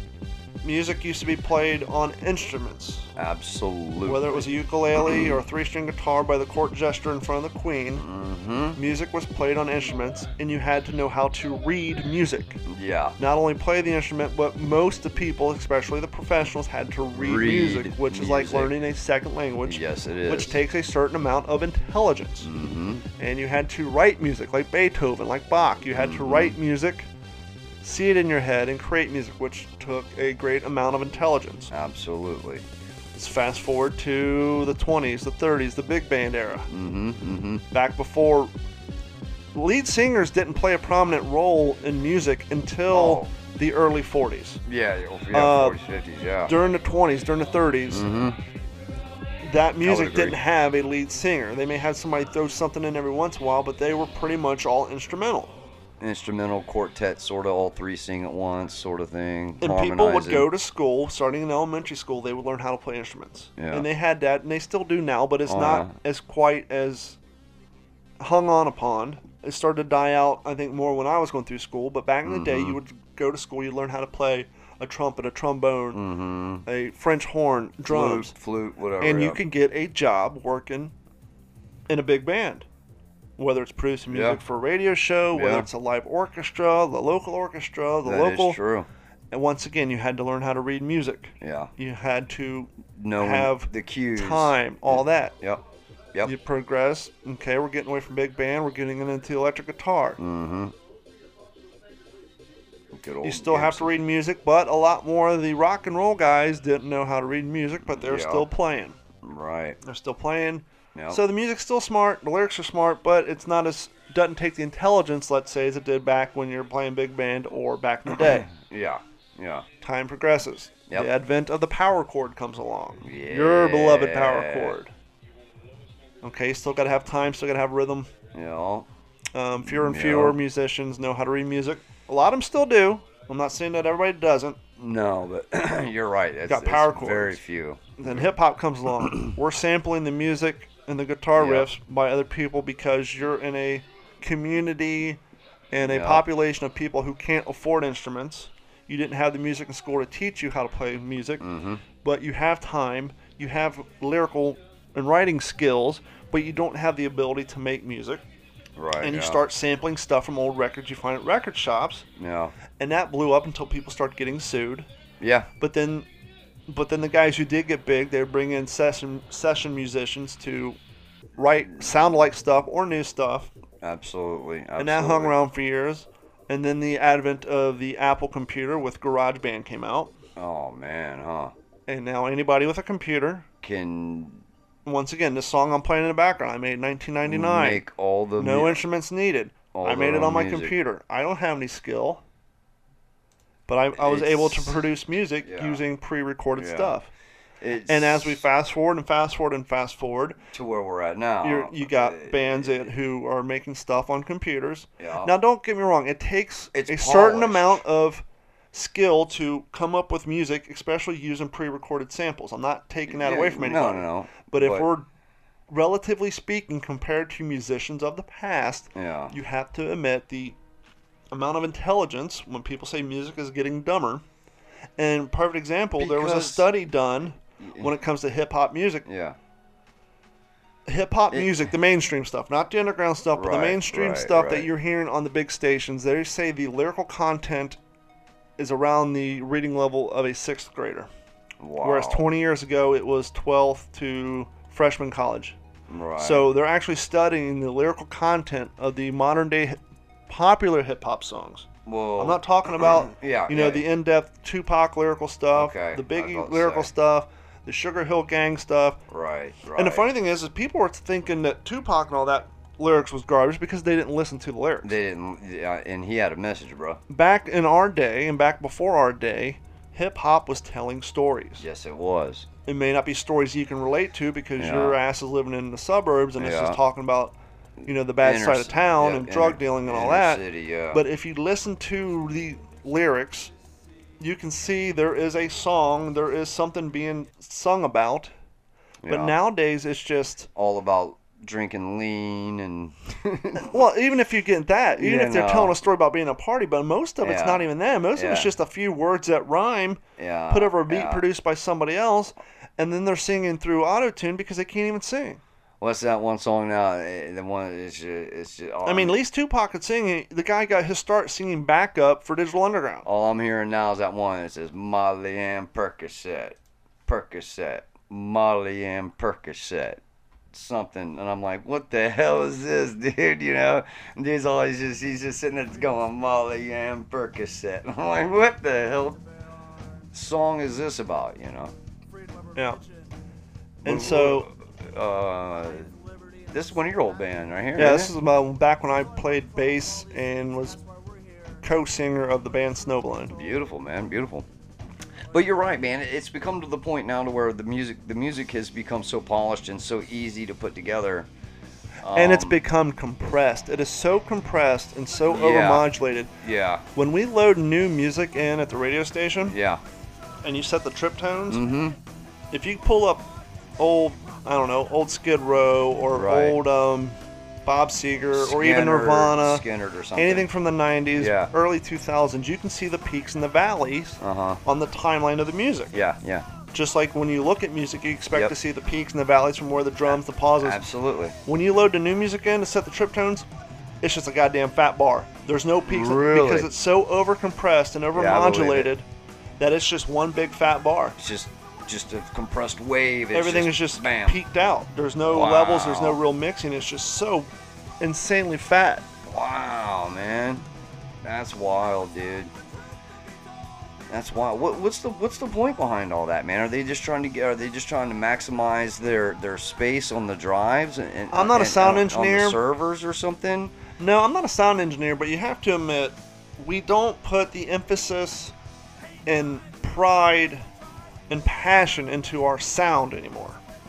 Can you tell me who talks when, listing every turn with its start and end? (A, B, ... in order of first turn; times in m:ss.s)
0:00.6-0:03.1 A
0:03.2-0:05.4 B
0:04.0-0:08.1 A
0:08.0-0:08.8 B
0:08.8-0:12.6 A
0:12.7-0:13.2 B
0:13.2-0:22.5 A
0:17.1-0:18.7 B
0:19.6-0:20.6 B
0:22.4-0:23.0 B
0:23.2-0:27.1 A
0:26.0-0:26.6 B
0:27.8-0:31.7 A
0:31.7-0:32.6 B
0:33.2-0:36.7 A
0:36.7-0:37.6 B
0:37.7-0:38.5 A
0:39.6-0:44.6 A
0:42.9-0:43.3 B
0:44.6-0:46.5 B
0:45.3-0:45.8 A
0:46.5-0:48.1 A
0:47.9-0:48.4 B
0:49.4-0:55.5 A
0:49.8-0:50.4 B
0:56.0-1:00.5 B
0:59.6-1:07.2 A
1:03.6-1:03.9 B
1:05.5-1:05.9 B
1:08.2-1:16.0 A
1:12.2-1:12.8 B
1:15.9-1:16.6 B
1:16.6-1:18.4 A
1:17.9-1:19.4 B
1:19.0-1:20.9 A
1:21.9-1:22.6 A
1:23.4-1:28.6 A
1:24.1-1:24.4 B
1:25.3-1:25.7 B
1:28.0-1:28.9 B
1:29.3-1:35.4 A
1:31.4-1:31.7 B
1:33.0-1:35.6 B
1:36.2-1:40.2 A
1:40.2-1:40.7 B
1:42.9-1:44.0 B
1:43.2-1:49.0 A
1:47.8-1:48.5 B
1:49.2-1:49.8 B
1:49.8-1:58.5 A
1:50.9-1:51.2 B
1:58.3-1:59.6 B
1:59.8-2:04.9 A
2:03.0-2:04.8 B
2:06.2-2:08.1 A
2:08.3-2:08.9 B
2:09.3-2:14.6 A
2:09.6-2:10.4 B
2:14.8-2:18.3 B
2:16.5-2:17.4 A
2:18.0-2:25.2 A
2:19.0-2:19.3 B
2:21.4-2:21.7 B
2:25.7-2:31.4 A
2:25.8-2:26.3 B
2:31.4-2:31.8 B
2:32.0-2:38.2 A
2:38.8-2:39.4 B
2:39.0-2:42.1 A
2:42.2-2:42.6 B
2:42.8-2:44.9 A
2:45.2-2:45.5 B
2:45.6-2:46.1 A
2:46.7-2:50.8 A
2:51.4-2:53.5 A
2:53.8-2:55.3 B
2:54.8-3:00.1 A
3:00.4-3:01.5 B
3:01.9-3:03.5 A
3:03.6-3:04.4 B
3:04.8-3:07.8 A
3:07.2-3:08.8 B
3:08.4-3:12.2 A
3:09.7-3:10.8 B
3:13.7-3:17.1 A
3:14.0-3:14.8 B
3:15.4-3:15.8 B
3:16.6-3:17.0 B
3:17.6-3:18.4 B
3:17.9-3:20.4 A
3:20.5-3:22.9 B
3:21.4-3:35.1 A
3:25.0-3:25.3 B
3:26.7-3:27.8 B
3:33.1-3:34.9 B
3:35.7-3:40.6 A
3:38.9-3:39.3 B
3:41.3-3:44.2 A
3:45.0-3:49.1 A
3:46.0-3:46.7 B
3:47.6-3:47.9 B
3:49.1-3:49.4 B
3:50.9-3:57.8 A
3:53.3-3:54.7 B
3:58.6-4:01.1 A
4:01.6-4:02.3 B
4:01.8-4:05.6 A
4:05.9-4:06.5 B
4:06.2-4:19.0 A
4:11.8-4:13.8 B
4:15.5-4:16.9 B
4:19.1-4:20.1 B
4:19.8-4:24.9 A
4:24.8-4:27.0 B
4:27.1-4:31.6 A
4:31.6-4:32.5 B
4:32.6-4:43.5 A
4:34.6-4:35.0 B
4:36.4-4:36.8 B
4:38.2-4:41.0 B
4:44.2-4:48.3 A
4:49.0-4:49.4 B
4:49.1-4:50.5 A
4:50.5-4:53.8 B
4:53.6-5:05.4 A
4:55.0-4:55.8 B
4:57.2-4:58.6 B
5:00.2-5:01.2 B
5:05.8-5:09.2 B
5:08.8-5:13.1 A
5:13.0-5:20.0 B
5:20.5-5:29.2 B
5:30.1-5:31.7 B
5:32.5-5:32.8 A
5:33.8-5:35.9 B
5:33.8-5:34.5 A
5:36.5-5:38.1 B
5:37.8-5:40.8 A
5:41.6-5:43.4 A
5:43.3-5:44.5 B
5:45.3-5:51.3 B
5:52.0-5:52.6 B
5:52.1-5:56.3 A
5:55.3-5:55.9 B
5:56.4-5:56.9 B
5:56.9-5:59.6 A
5:59.5-5:59.8 B
6:00.4-6:01.6 A
6:01.5-6:02.0 B
6:02.5-6:03.3 A
6:03.8-6:09.6 A
6:06.1-6:06.6 B
6:08.3-6:10.5 B
6:10.2-6:15.9 A
6:11.2-6:11.5 B
6:14.2-6:14.6 B
6:15.9-6:16.5 B
6:16.7-6:20.8 A
6:20.1-6:21.4 B
6:21.4-6:23.5 A
6:24.0-6:29.0 A
6:25.9-6:26.7 B
6:28.2-6:28.9 B
6:29.6-6:31.2 A
6:31.2-6:34.4 B
6:33.3-6:37.5 A
6:35.2-6:36.2 B
6:38.0-6:39.1 A
6:39.2-6:40.6 B
6:41.2-6:42.5 B
6:44.1-6:53.8 B
6:51.3-6:52.6 A
6:54.0-6:58.5 A
6:59.2-7:00.6 A
7:01.3-7:03.6 A